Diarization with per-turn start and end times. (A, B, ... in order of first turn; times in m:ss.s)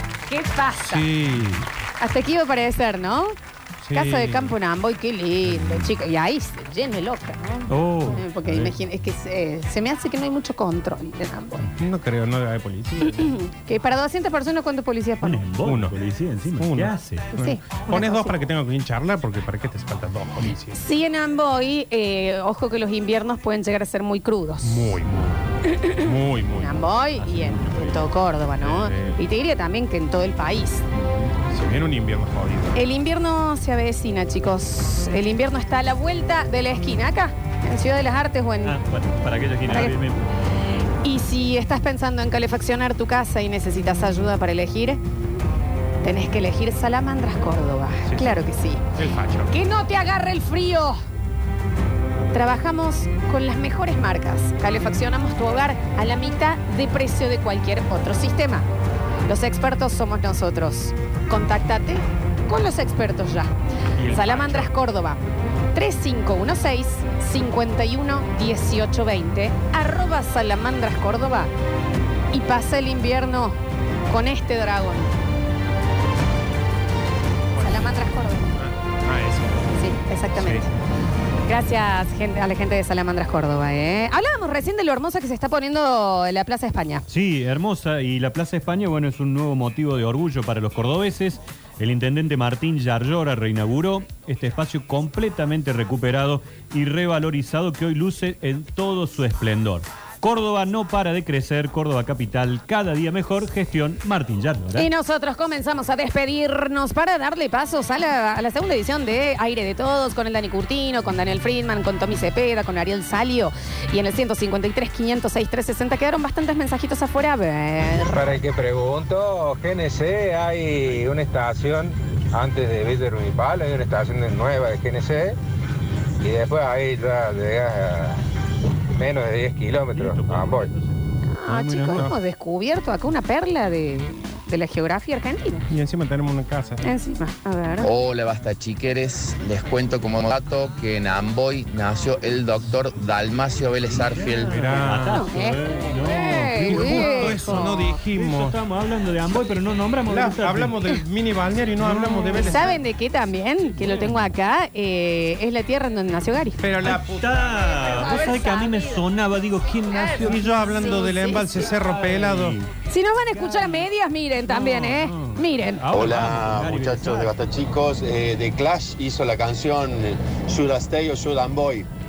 0:00.3-0:01.1 A
0:00.8-0:01.7 B
0:02.0-0:03.4 A
0:03.8-0:04.6 B
0:03.9-0:11.7 A
0:07.7-0:08.7 C
0:11.6-0:13.4 B
0:13.0-0:15.4 A
0:15.2-0:17.3 C
0:15.6-0:16.0 B
0:16.6-0:20.8 B
0:17.3-0:18.3 A
0:20.7-0:25.0 A
0:24.6-0:26.9 B
0:25.6-0:30.8 A
0:27.2-0:28.1 C
0:28.6-0:29.2 B
0:30.9-0:31.3 C
0:31.5-0:32.8 B
0:32.8-0:38.8 A
0:38.6-0:40.3 C
0:39.7-0:40.0 A
0:41.0-0:45.0 A
0:46.0-0:48.9 A
0:48.1-0:48.4 B
0:49.0-0:49.6 B
0:49.5-0:51.0 A
0:52.3-0:58.7 A
0:59.3-1:03.5 A
1:04.0-1:04.7 B
1:04.1-1:05.2 A
1:05.7-1:11.5 A
1:12.3-1:13.6 A
1:14.1-1:15.1 A
1:17.6-1:19.6 B
1:17.6-1:18.5 A
1:19.8-1:20.7 A
1:20.4-1:20.7 B
1:21.5-1:27.1 A
1:27.1-1:44.9 C
1:44.8-1:58.4 A
1:58.1-2:05.4 D
2:06.2-2:08.2 D
2:09.0-2:10.7 D
2:09.9-2:11.0 C
2:11.3-2:15.7 A
2:11.5-2:12.0 C
2:15.7-2:16.8 B
2:16.8-2:17.9 A
2:17.8-2:24.6 E
2:23.9-2:30.8 C
2:24.5-2:25.2 B
2:25.0-2:28.0 A
2:26.4-2:28.6 B
2:30.1-2:32.8 B
2:31.8-2:32.8 C
2:32.4-2:36.6 A
2:33.8-2:34.3 C
2:36.6-2:37.4 B
2:36.8-2:41.0 C
2:37.8-2:39.0 A
2:39.9-2:41.7 A
2:40.2-2:42.6 B
2:41.6-2:42.7 C
2:42.9-2:46.0 A
2:43.3-2:43.9 C
2:44.5-2:47.3 C
2:45.9-2:51.9 F